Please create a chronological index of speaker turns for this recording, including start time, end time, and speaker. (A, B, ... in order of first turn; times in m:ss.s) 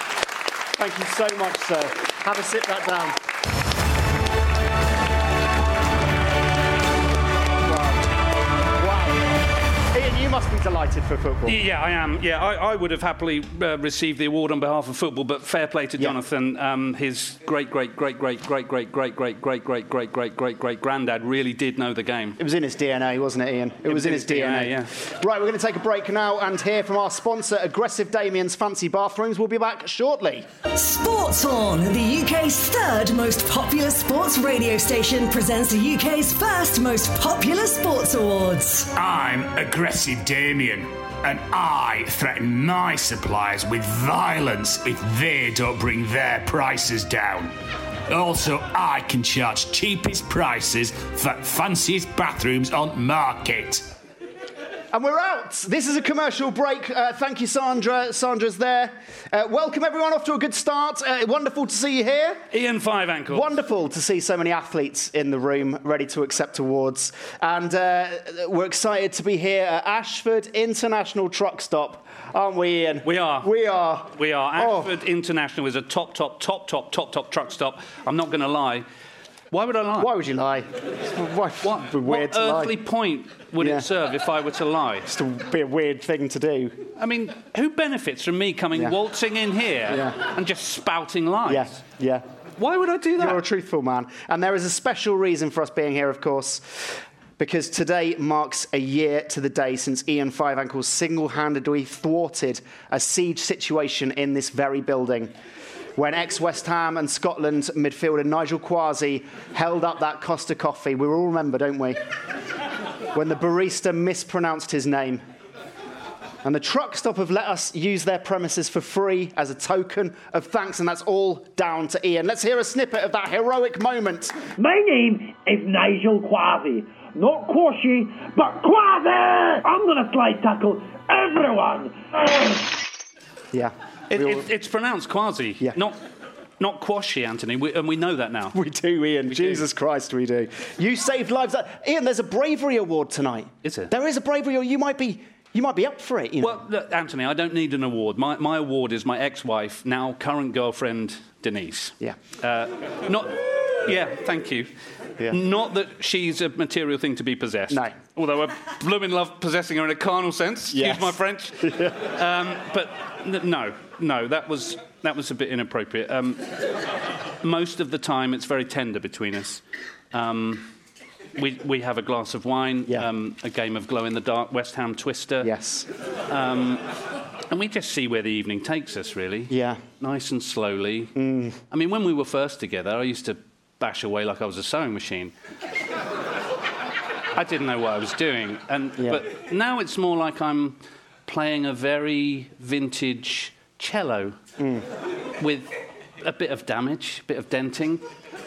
0:00.8-0:03.2 A
0:07.6-0:08.1 A
0:08.8-0:09.4 A
0:09.9-0:11.6 A
0:11.5-0:22.4 B
0:22.4-0:30.5 A
0:23.9-0:24.9 B
0:30.8-0:38.9 C
0:38.9-0:47.5 D
0:48.1-0:53.9 D
0:54.9-1:02.4 A
1:02.5-1:03.5 B
1:03.3-1:14.9 A
1:13.0-1:13.5 B
1:14.1-1:18.8 B
1:19.5-1:20.1 B
1:20.0-1:22.8 A
1:21.6-1:25.1 B
1:23.6-1:23.9 A
1:25.1-1:26.8 A
1:27.0-1:31.8 B
1:29.9-1:30.2 A
1:31.4-1:32.2 A
1:32.6-1:33.4 B
1:33.2-1:45.3 A
1:46.0-1:52.0 A
1:53.1-1:55.2 A
1:56.4-2:04.4 A
2:04.6-2:12.7 E
2:13.5-2:14.5 A
2:14.1-2:16.0 B
2:16.6-2:18.6 B
2:18.5-2:26.6 A
2:19.3-2:19.6 B
2:23.6-2:23.9 B
2:26.4-2:34.7 B
2:35.3-2:46.4 B
2:40.7-2:42.0 A
2:47.4-2:49.6 B
2:50.1-2:50.7 B
2:51.4-2:55.5 B
2:55.4-2:55.9 A
2:56.3-2:56.8 B
2:57.5-3:01.1 B
2:59.5-2:59.8 A
3:01.2-3:01.6 A
3:01.7-3:05.3 B
3:07.4-3:14.4 B
3:14.6-3:14.8 A
3:15.4-3:18.0 B